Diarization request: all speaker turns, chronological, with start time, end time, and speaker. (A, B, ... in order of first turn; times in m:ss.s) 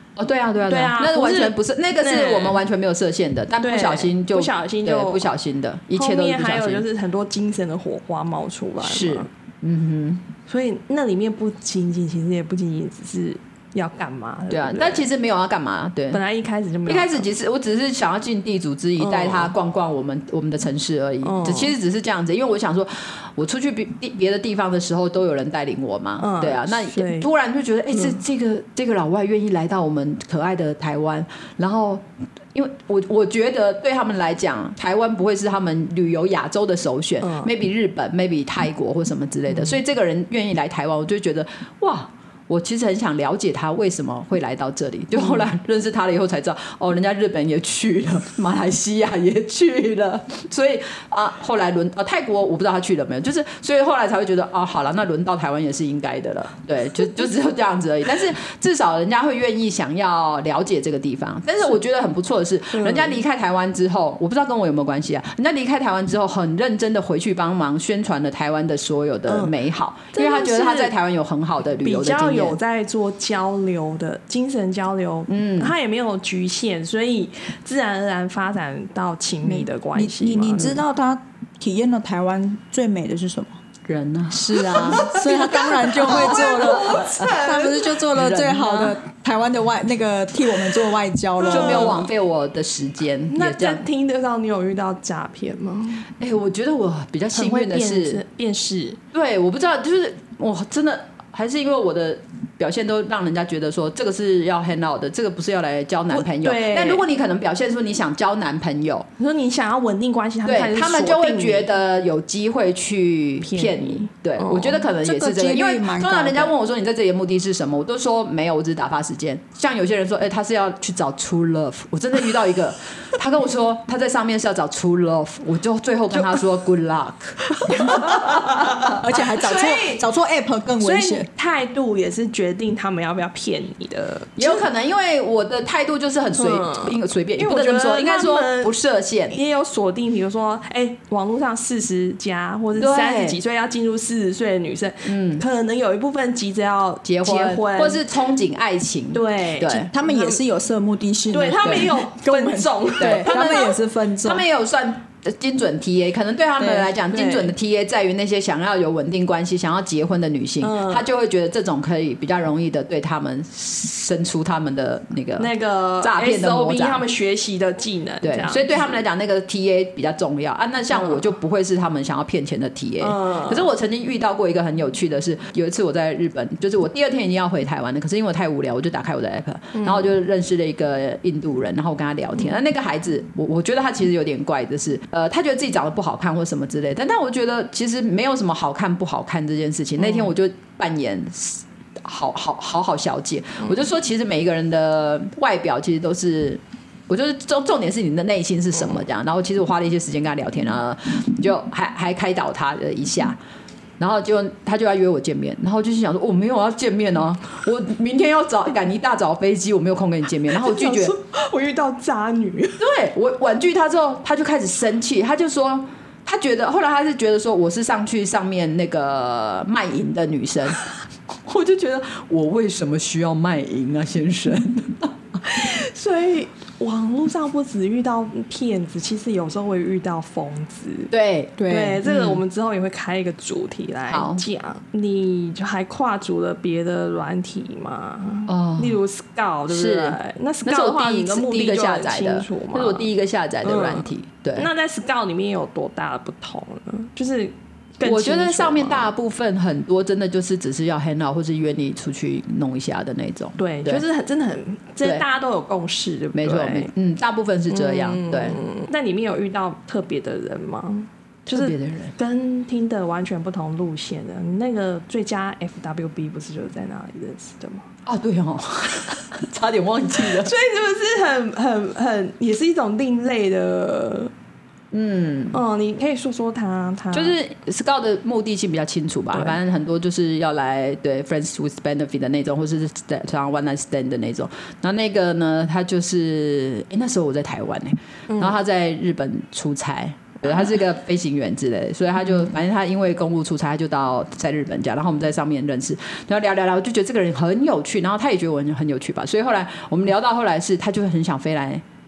0:00.2-0:06.8 A
0:00.7-0:02.6 B
0:03.6-0:05.3 B
0:05.9-0:09.3 B
0:08.8-0:10.3 A
0:10.5-0:15.1 B
0:14.5-0:16.2 A
0:16.1-0:17.3 B
0:16.8-1:12.6 A
0:19.0-0:19.5 B
0:21.2-0:21.7 B
0:26.2-0:27.3 B
0:27.9-0:28.2 B
0:37.2-0:37.5 B
0:39.5-0:39.8 B
0:45.2-0:45.4 B
1:02.7-1:03.2 B
1:09.3-1:09.5 B
1:10.1-1:10.9 B
1:11.8-1:20.8 B
1:15.3-1:15.7 A
1:19.5-1:23.6 C
1:23.8-1:27.4 A
1:24.3-1:32.0 C
1:24.9-1:27.9 B
1:28.1-1:28.9 A
1:31.4-1:32.0 B
1:31.4-1:33.8 A
1:33.3-1:36.1 B
1:36.2-1:38.2 A
1:37.3-1:39.0 B
1:39.1-1:49.1 A
1:46.1-1:47.0 B
1:49.2-1:51.7 B
1:50.4-2:08.8 A
1:53.4-1:54.8 B
1:55.0-1:56.5 C
2:07.7-2:10.0 B
2:07.7-2:11.3 C
2:10.8-2:14.6 B
2:14.4-2:19.4 A
2:16.3-2:18.7 B
2:19.3-2:28.0 B
2:22.8-2:23.4 A
2:25.0-2:25.4 A
2:27.0-2:29.9 A
2:29.1-2:30.4 B
2:29.9-2:34.4 C
2:31.3-2:33.7 B
2:31.6-2:31.9 A
2:33.0-2:47.0 A
2:36.6-2:36.9 C
2:37.1-2:37.5 B
2:40.6-2:41.0 B
2:45.4-2:49.0 B
2:48.2-3:23.4 A
2:50.9-2:51.2 B
2:53.0-2:53.7 B
2:59.7-3:00.1 B
3:10.0-3:10.3 B
3:24.0-3:31.1 A
3:30.5-3:32.8 B
3:32.8-3:45.1 A
3:45.4-3:51.1 B
3:51.1-3:52.4 A
3:51.6-3:52.0 C
3:51.6-4:03.1 B
3:54.1-3:54.4 A
3:58.5-3:59.0 A
3:59.7-4:04.7 A
4:03.6-4:09.1 B
4:08.0-4:14.0 A
4:13.6-4:16.9 B
4:16.3-4:18.6 A
4:17.7-4:27.9 B
4:21.5-4:22.1 A
4:28.0-4:30.5 A
4:30.4-4:34.3 B
4:34.9-4:35.6 A
4:35.5-4:37.4 B
4:37.1-5:01.8 A
4:48.3-4:48.5 B